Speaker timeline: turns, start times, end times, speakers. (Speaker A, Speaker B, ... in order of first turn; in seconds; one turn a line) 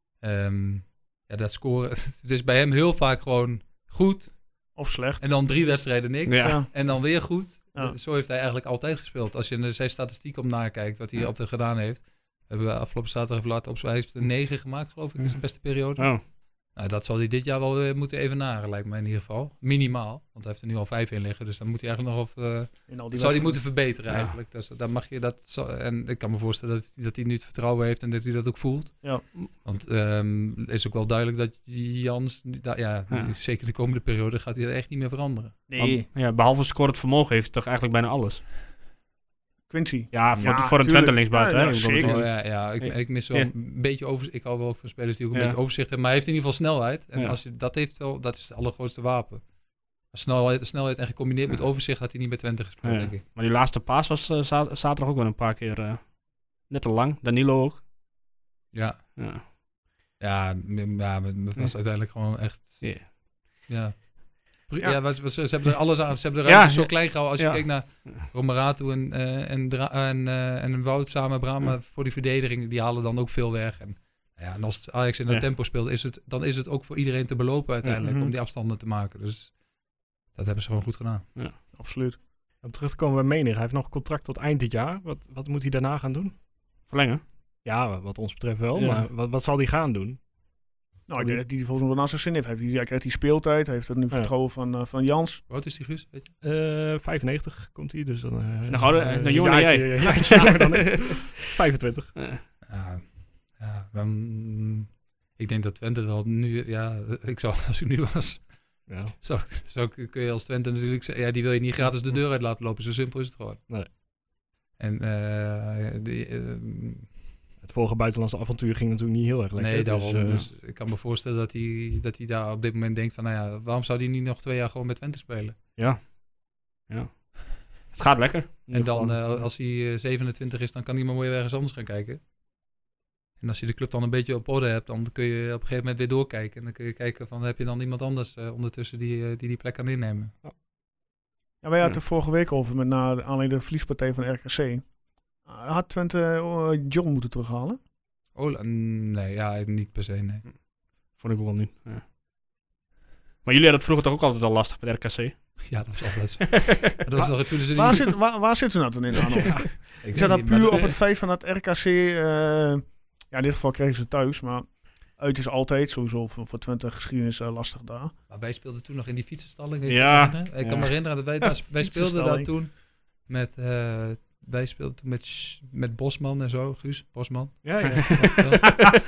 Speaker A: 0.2-35.6
Speaker B: 4.7-5.2
Speaker C: 6.2-6.6
Speaker B: 6.4-7.0
Speaker C: 15.2-16.2
Speaker B: 22.9-23.7
Speaker B: 35.7-36.1
Speaker C: 35.8-38.4
Speaker B: 39.7-42.2
Speaker C: 40.1-43.5
Speaker A: 40.3-40.6
Speaker A: 42.0-49.5
Speaker A: 50.1-53.2
Speaker C: 52.8-57.8
Speaker A: 58.7-59.5
Speaker C: 59.1-59.4
Speaker A: 60.2-79.6
Speaker C: 62.8-63.1
Speaker C: 66.5-68.2
Speaker B: 78.0-78.3
Speaker A: 80.3-81.3
Speaker B: 81.7-82.2
Speaker D: 82.6-86.3
Speaker C: 86.9-87.2
Speaker D: 87.6-90.2
Speaker C: 88.7-89.1
Speaker B: 91.1-95.4
Speaker A: 95.5-96.3
Speaker D: 96.4-102.2
Speaker C: 98.7-101.4
Speaker C: 102.2-102.4
Speaker A: 102.6-113.6
Speaker D: 108.9-109.1
Speaker A: 114.8-117.1
Speaker D: 117.6-120.5
Speaker A: 119.6-125.5
Speaker C: 125.8-126.2
Speaker C: 126.8-129.2
Speaker A: 128.7-132.2
Speaker A: 133.4-140.3
Speaker B: 141.6-147.8
Speaker A: 148.3-150.4
Speaker C: 151.1-152.0
Speaker C: 153.4-156.0
Speaker A: 155.7-158.2
Speaker C: 156.5-156.8
Speaker B: 157.2-168.1
Speaker A: 160.0-160.9
Speaker A: 168.3-178.9
Speaker C: 169.9-171.4
Speaker B: 171.8-172.5
Speaker D: 177.6-178.4
Speaker C: 177.9-178.2